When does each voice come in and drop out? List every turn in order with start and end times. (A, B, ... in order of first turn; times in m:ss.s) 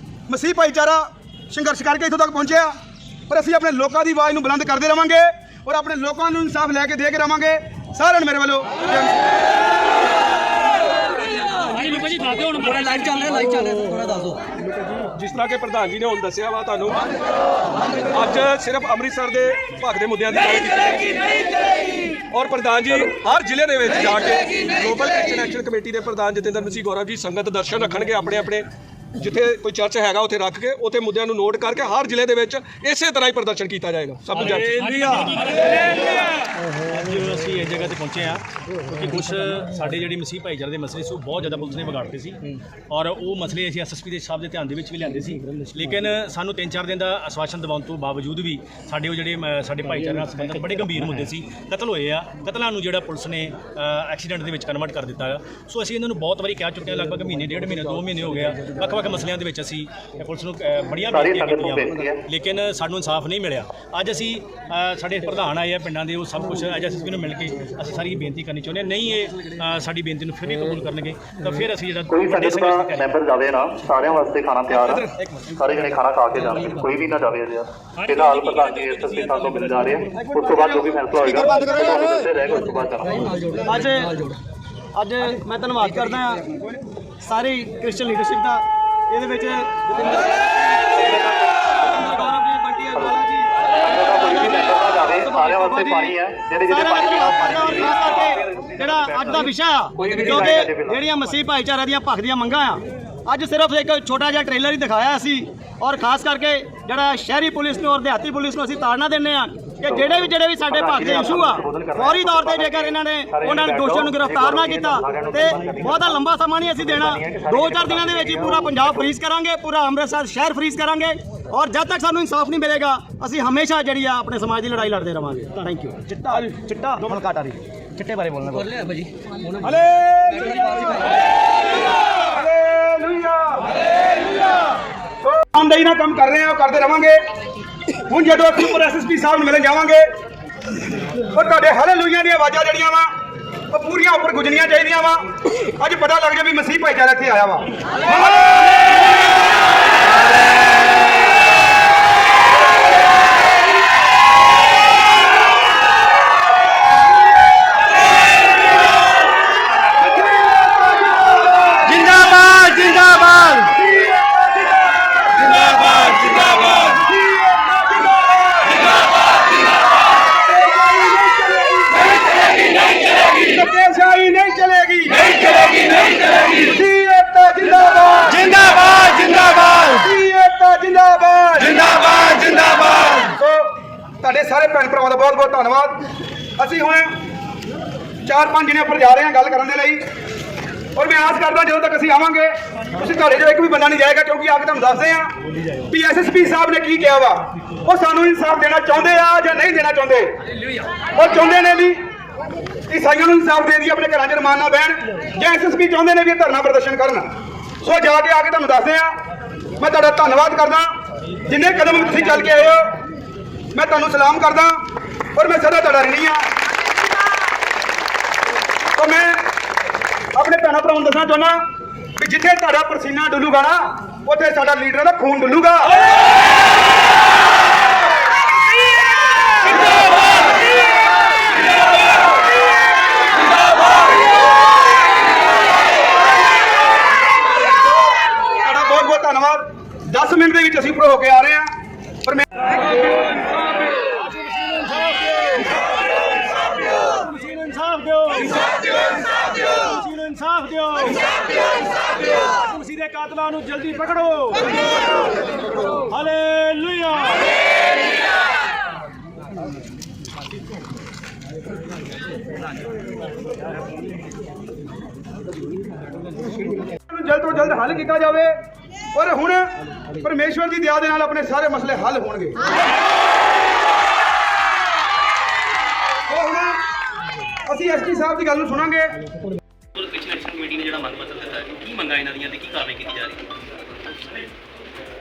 0:00.3-0:02.8 A
0:03.3-0:09.3 A
0:12.0-0:12.6 B
0:12.6-0:14.4 C
0:14.6-0:17.1 D
0:17.8-0:21.5 D
0:22.3-0:35.8 D
0:34.4-0:36.2 B
0:36.8-1:13.2 B
1:01.1-1:02.2 E
1:12.1-1:23.3 E
1:14.8-1:15.1 D
1:18.1-1:19.9 B
1:20.2-1:21.8 C
1:23.1-1:24.4 C
1:25.0-1:26.5 C
1:27.2-2:09.8 C
1:32.9-1:33.2 E
1:33.7-1:41.0 E
1:49.8-1:59.2 E
2:09.8-2:10.7 A
2:12.3-2:13.8 A
2:15.2-2:17.2 A
2:18.1-2:20.1 A
2:21.3-2:23.1 A
2:23.7-2:27.7 A
2:40.0-2:42.4 A
2:43.5-2:48.8 A
2:50.2-3:03.7 A
3:04.2-3:06.1 A
3:06.6-3:07.1 A
3:08.2-3:10.0 A
3:11.0-3:15.3 A
3:15.9-3:20.3 A
3:21.1-3:22.0 A
3:22.9-3:27.3 A
3:27.8-3:29.2 A
3:29.8-3:30.9 A
3:31.4-3:32.9 A
3:33.7-3:34.8 A
3:35.3-3:36.5 A
3:39.0-3:39.5 A
3:40.4-3:41.6 A
3:42.2-3:46.0 A
3:58.6-4:01.7 A
4:02.2-4:02.6 A
4:03.2-4:05.8 B
4:06.9-4:09.0 B
4:09.5-4:11.4 B
4:12.4-4:14.8 B
4:15.8-4:17.5 B
4:27.1-4:28.6 A
4:29.1-4:32.7 A
4:36.3-4:36.8 A
4:37.7-4:39.2 A
4:40.0-4:43.5 F